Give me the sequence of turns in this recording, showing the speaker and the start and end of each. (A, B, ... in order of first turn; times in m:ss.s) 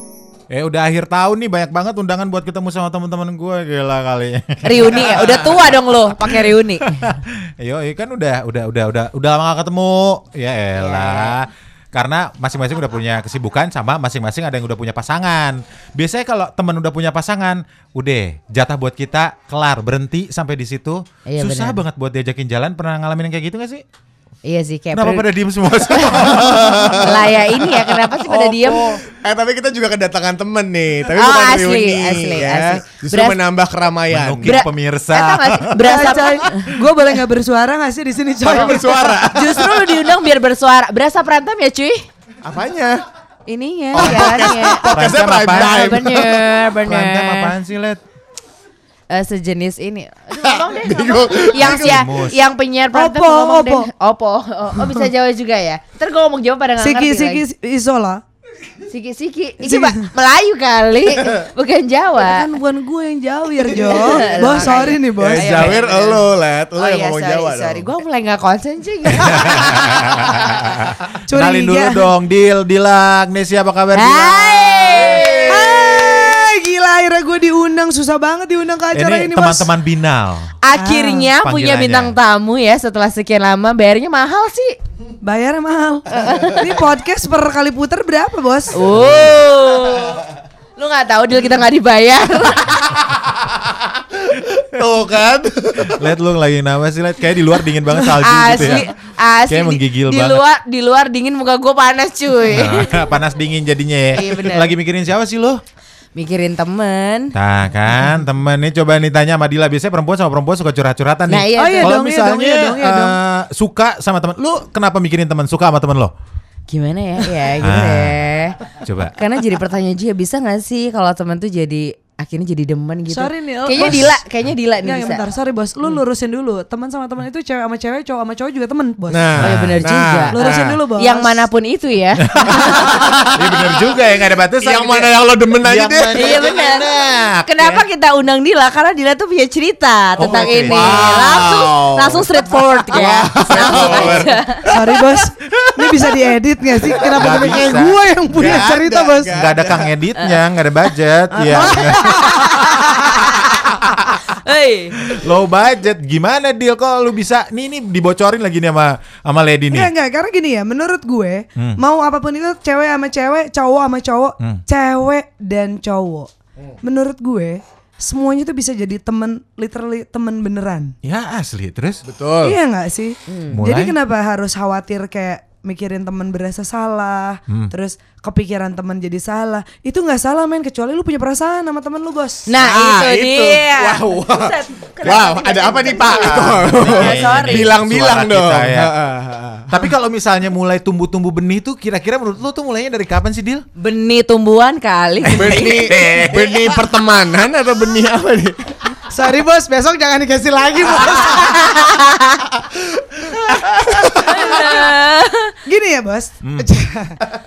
0:00.5-0:05.5 A
0:04.6-0:07.0 B
0:06.9-0:23.8 A
0:10.8-0:11.4 B
0:21.3-0:21.8 B
0:24.4-0:26.3 B
0:25.0-0:27.1 A
0:26.4-0:27.3 C
0:27.0-0:29.0 B
0:28.2-0:34.6 C
0:31.1-0:33.4 B
0:34.1-0:35.8 A
0:34.4-0:36.6 B
0:35.8-0:39.0 D
0:38.4-0:39.9 C
0:39.3-0:42.0 B
0:42.4-0:43.0 C
0:43.5-0:47.5 B
0:43.9-0:46.3 C
0:44.0-0:44.3 A
0:44.9-0:46.0 A
0:46.9-0:48.0 A
0:49.1-0:57.4 B
0:50.4-0:52.0 C
0:51.6-0:52.4 A
0:52.9-0:53.9 D
0:56.8-0:58.2 D
0:58.9-1:02.5 B
0:59.6-1:00.1 D
1:02.2-1:05.5 D
1:03.7-1:06.2 B
1:05.2-1:07.9 C
1:05.5-1:05.8 A
1:06.8-1:09.9 B
1:09.1-1:15.3 A
1:11.3-1:12.0 D
1:13.9-1:16.1 B
1:15.5-1:19.7 D
1:18.9-1:20.5 A
1:20.6-1:24.8 B
1:20.8-1:21.3 D
1:21.4-1:22.2 A
1:25.2-1:28.8 D
1:26.1-1:26.6 B
1:28.7-1:30.2 B
1:28.8-1:29.4 A
1:30.8-1:32.9 B
1:34.6-1:38.9 A
1:35.4-1:36.1 C
1:38.1-1:43.1 B
1:39.5-1:40.4 A
1:42.5-1:45.6 A
1:44.1-1:44.7 B
1:46.2-1:47.3 B
1:47.4-1:56.1 A
1:51.3-1:51.9 B
1:51.6-1:53.2 D
1:56.7-1:58.6 B
1:57.6-1:58.2 A
1:58.8-1:59.1 A
1:59.2-2:05.2 B
2:03.1-2:04.1 D
2:03.8-2:04.0 A
2:04.8-2:09.3 D
2:09.1-2:10.3 C
2:09.4-2:09.8 A
2:09.4-2:10.4 B
2:10.3-2:11.5 D
2:10.4-2:10.8 A
2:11.0-2:12.9 B
2:12.3-2:17.8 A
2:12.6-2:13.6 C
2:14.6-2:16.3 C
2:16.1-2:17.0 B
2:17.5-2:24.7 B
2:20.2-2:22.2 A
2:20.2-2:21.8 C
2:22.9-2:24.4 C
2:23.0-2:24.3 A
2:24.7-2:29.3 D
2:27.1-2:28.7 A
2:27.2-2:27.6 C
2:28.3-2:29.9 C
2:29.3-2:32.3 A
2:31.3-2:32.4 D
2:31.5-2:33.5 B
2:33.6-2:34.2 A
2:34.4-2:35.0 B
2:35.1-2:39.9 A
2:39.7-2:46.3 D
2:46.8-2:51.0 D
2:51.0-2:52.0 A
2:52.0-2:52.6 C
2:52.4-3:02.5 D
2:53.3-2:53.6 B
2:53.5-2:54.0 A
3:02.5-3:07.7 B
3:02.6-3:09.8 C
3:06.1-3:08.9 A
3:09.7-3:13.6 A
3:13.8-3:15.9 B
3:15.2-3:16.8 A
3:15.3-3:18.7 C
3:19.1-3:21.6 D
3:21.3-3:22.4 B
3:24.0-3:24.4 C
3:24.2-3:25.6 B
3:25.7-3:27.2 D